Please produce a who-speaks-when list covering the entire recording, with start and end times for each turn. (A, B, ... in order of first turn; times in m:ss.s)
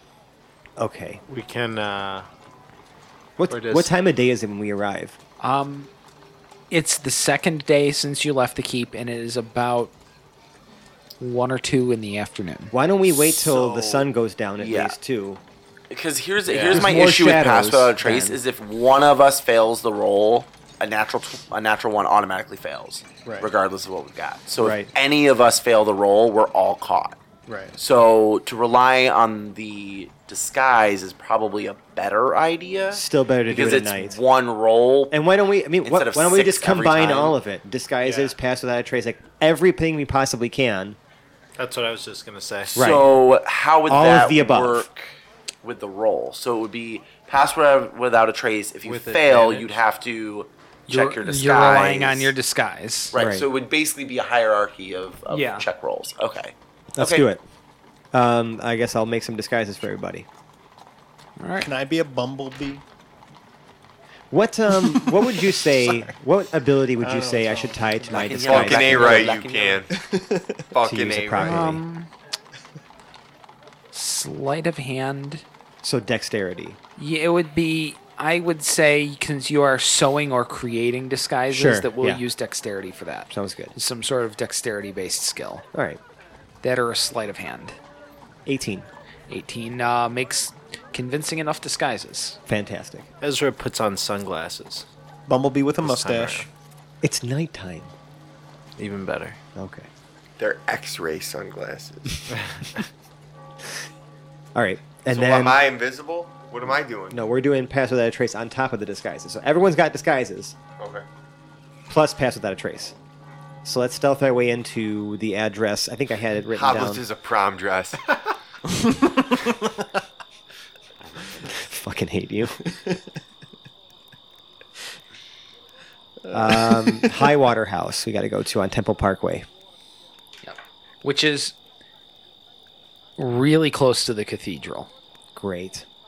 0:00.8-0:01.2 A
0:01.3-0:02.3 B
0:03.4-0:05.2 A
0:03.5-0:03.9 B
0:05.4-0:05.9 C
0:06.7-0:09.9 C
0:11.2-0:12.7 C
0:12.7-0:15.4 A
0:13.1-0:14.0 D
0:14.6-0:15.0 D
0:15.9-0:27.2 D
0:16.5-0:16.9 B
0:16.7-0:18.0 A
0:18.0-0:18.4 C
0:24.6-0:24.9 A
0:27.5-0:27.7 E
0:27.8-0:35.1 D
0:32.9-0:34.2 A
0:35.1-0:41.0 A
0:35.8-0:37.4 D
0:38.0-0:38.3 B
0:41.6-0:42.7 B
0:42.7-0:45.0 D
0:42.7-0:43.1 A
0:43.9-0:44.9 A
0:45.6-0:52.3 D
0:48.8-0:49.7 B
0:50.9-0:53.1 C
0:53.1-0:57.3 D
0:53.1-0:53.5 A
0:55.3-0:55.6 C
0:56.9-0:57.4 A
0:58.1-1:00.3 A
1:01.4-1:01.7 C
1:01.6-1:02.8 E
1:04.3-1:09.3 A
1:04.8-1:05.5 E
1:07.0-1:08.3 E
1:08.1-1:09.8 D
1:08.3-1:09.9 F
1:09.9-1:10.7 E
1:10.7-1:11.7 F
1:10.8-1:11.8 A
1:11.4-1:12.1 C
1:13.9-1:15.4 C
1:15.8-1:16.8 A
1:17.0-1:25.6 C
1:21.5-1:22.2 A
1:23.3-1:23.7 A
1:25.7-1:26.0 A
1:26.6-1:27.8 C
1:28.4-1:28.9 A
1:29.3-1:32.4 C
1:32.5-1:33.1 A
1:33.2-1:34.8 B
1:35.3-1:36.5 E
1:35.8-1:36.4 B
1:37.0-1:37.9 A
1:38.8-1:39.4 B
1:39.5-1:39.9 A
1:40.4-1:42.3 F
1:42.4-1:42.7 B
1:44.5-1:45.6 A
1:45.1-1:47.2 F
1:47.1-1:50.6 A
1:50.8-1:51.0 F
1:51.9-1:52.9 A
1:53.6-1:57.0 A
1:56.5-1:58.0 F
1:58.8-1:59.2 E
2:01.4-2:02.6 A
2:06.2-2:07.3 E
2:06.3-2:09.5 A
2:10.4-2:11.6 C
2:13.2-2:14.9 C
2:15.3-2:15.9 A